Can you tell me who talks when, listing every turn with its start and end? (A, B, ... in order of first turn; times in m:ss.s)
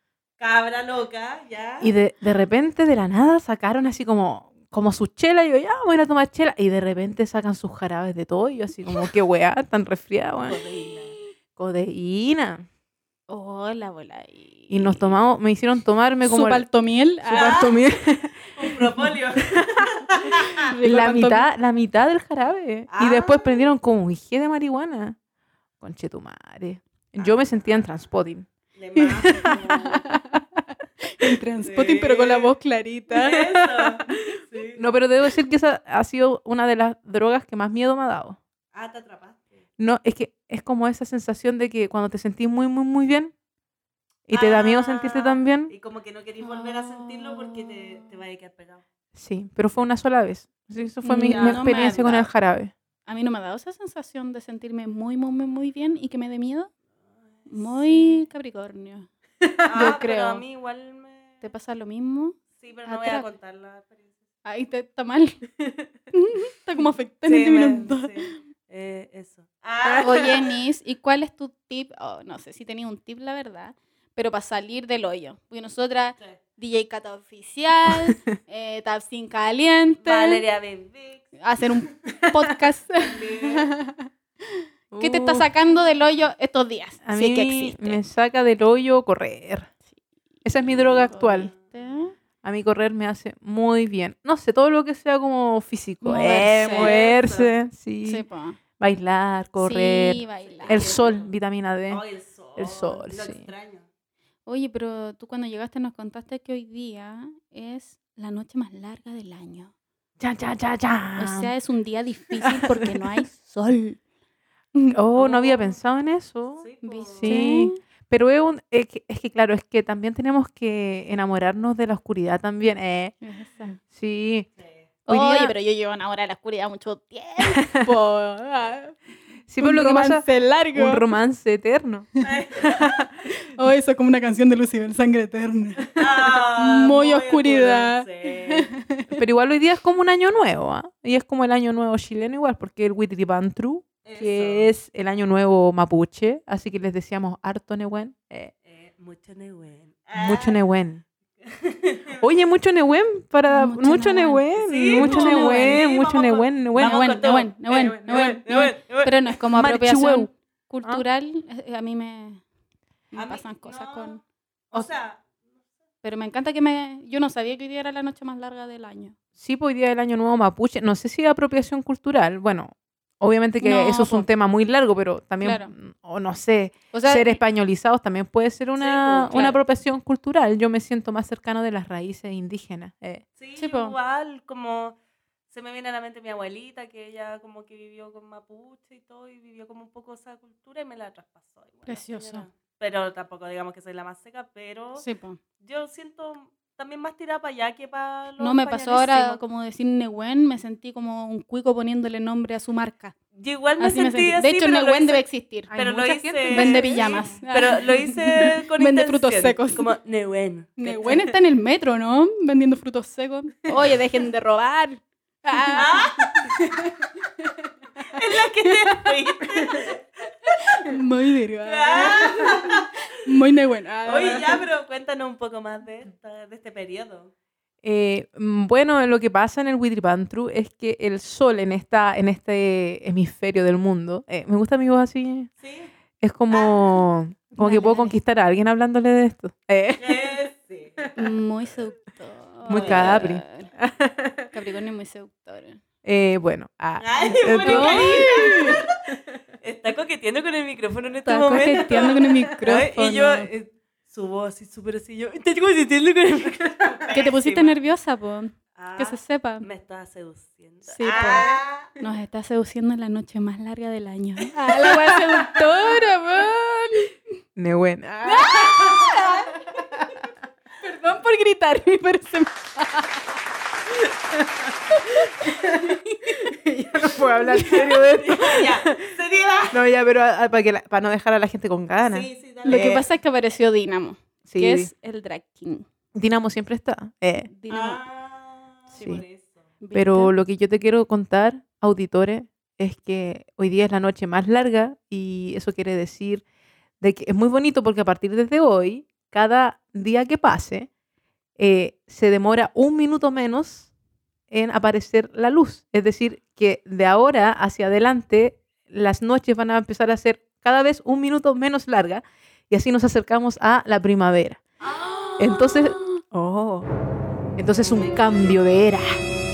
0:00.4-0:01.9 A
0:01.8-0:10.6 B
0:10.4-0:11.1 A
0:11.6-0:12.6 B
0:13.3-0:15.1 C
0:14.7-0:16.6 B
0:16.2-0:17.7 C
0:17.3-0:18.8 B
0:17.3-0:17.8 A
0:18.5-0:20.6 A
0:19.4-0:19.8 B
0:20.6-0:21.5 C
0:20.8-0:25.2 B
0:22.9-0:23.7 A
0:25.8-0:28.5 B
0:27.2-0:27.8 A
0:28.7-0:30.1 A
0:29.0-0:30.4 C
0:31.0-0:33.5 C
0:31.6-0:32.5 A
0:33.1-0:34.8 A
0:34.8-0:38.4 B
0:38.7-0:39.6 A
0:39.8-0:43.3 B
0:44.3-0:45.7 B
0:44.3-0:48.8 A
0:46.4-0:47.8 C
0:49.1-0:52.7 B
0:51.0-0:52.3 C
0:51.2-0:51.7 A
0:53.0-0:56.7 C
0:57.3-0:58.2 A
0:57.5-0:59.1 C
0:59.6-1:01.4 A
0:59.7-1:00.4 C
1:01.4-1:03.2 C
1:02.5-1:04.1 A
1:04.4-1:05.4 C
1:06.1-1:08.3 C
1:07.2-1:10.5 A
1:10.0-1:20.4 C
1:20.0-1:21.4 A
1:21.4-1:24.1 C
1:23.0-1:23.7 A
1:24.9-1:25.5 B
1:25.0-1:28.0 C
1:27.0-1:29.7 B
1:30.4-1:31.5 B
1:31.0-1:32.1 C
1:31.0-1:31.6 A
1:32.4-1:38.2 B
1:36.0-1:36.9 C
1:36.3-1:37.6 A
1:38.0-1:38.6 C
1:38.8-1:42.0 B
1:39.6-1:41.0 C
1:40.4-1:41.3 A
1:41.9-1:43.9 A
1:42.6-1:43.5 B
1:44.5-1:49.7 C
1:50.2-1:51.5 B
1:51.2-1:54.0 C
1:52.5-1:53.1 B
1:54.9-2:03.2 B
1:55.1-1:55.7 A
1:56.6-1:57.4 A
1:56.8-1:57.8 C
2:03.2-2:03.8 C
2:03.8-2:04.5 B
2:04.6-2:04.9 A
2:05.1-2:05.5 B
2:05.1-2:09.0 C
2:07.5-2:07.8 B
2:09.5-2:13.1 B
2:09.6-2:11.0 C
2:12.2-2:13.0 A
2:13.3-2:19.2 C
2:16.0-2:18.7 A
2:19.1-2:28.5 B
2:24.0-2:24.7 A
2:28.6-2:30.6 A
2:30.1-2:31.0 B
2:31.4-2:32.2 A
2:32.2-2:37.2 B
2:33.5-2:35.8 C
2:34.6-2:39.4 A
2:36.8-2:42.4 C
2:37.9-2:38.4 B
2:39.5-2:40.3 B
2:43.1-2:44.2 C
2:43.2-2:44.2 A
2:44.7-2:45.3 A
2:46.0-2:49.1 C
2:49.4-3:03.2 B
2:53.6-2:54.3 C
2:55.4-2:55.7 C
2:56.9-2:57.4 C
2:58.8-2:59.6 A
3:03.4-3:05.0 A
3:03.6-3:04.0 C
3:05.5-3:15.0 A
3:11.8-3:12.5 C
3:15.0-3:15.4 C
3:15.6-3:19.4 A
3:18.4-3:23.1 C
3:23.3-3:25.2 A
3:23.8-3:25.7 C
3:25.7-3:27.2 B
3:25.8-3:31.2 A
3:26.5-3:29.9 C
3:30.8-3:37.5 C
3:35.7-3:36.6 A
3:38.0-3:40.5 A
3:38.6-3:39.1 C
3:40.5-3:44.6 C
3:41.6-3:42.9 A
3:44.0-3:47.3 A
3:47.8-3:55.5 B
3:55.6-3:55.9 A
3:56.2-4:00.3 B
3:56.5-3:57.0 A
3:57.6-3:58.2 C
4:00.0-4:01.1 A
4:01.2-4:03.7 C
4:02.7-4:03.3 A
4:02.7-4:04.5 B
4:04.5-4:05.8 C
4:06.0-4:08.8 B
4:07.0-4:08.9 A
4:07.6-4:08.8 C
4:09.6-4:17.8 A
4:11.2-4:13.5 C
4:11.8-4:12.4 B
4:17.1-4:19.7 C
4:18.8-4:21.9 A
4:20.9-4:27.1 C
4:27.6-4:29.2 B
4:28.2-4:29.8 C
4:30.8-4:33.2 C
4:34.3-4:34.7 B
4:34.9-4:35.5 C
4:35.3-4:39.1 B
4:37.2-4:38.0 C
4:37.8-4:39.8 A
4:39.7-4:43.0 B
4:42.0-4:43.0 A
4:42.6-4:45.8 C
4:44.4-4:44.9 B
4:46.1-4:47.5 B
4:47.5-4:48.0 C
4:47.7-4:49.7 A
4:48.9-4:49.2 C
4:49.0-4:49.2 B
4:49.8-4:50.3 C
4:49.9-4:56.4 B
4:57.0-5:00.9 B
5:01.6-5:03.9 B
5:04.5-5:14.6 B
5:14.9-5:16.2 C
5:15.4-5:16.9 B
5:17.6-5:19.1 B
5:17.8-5:18.6 A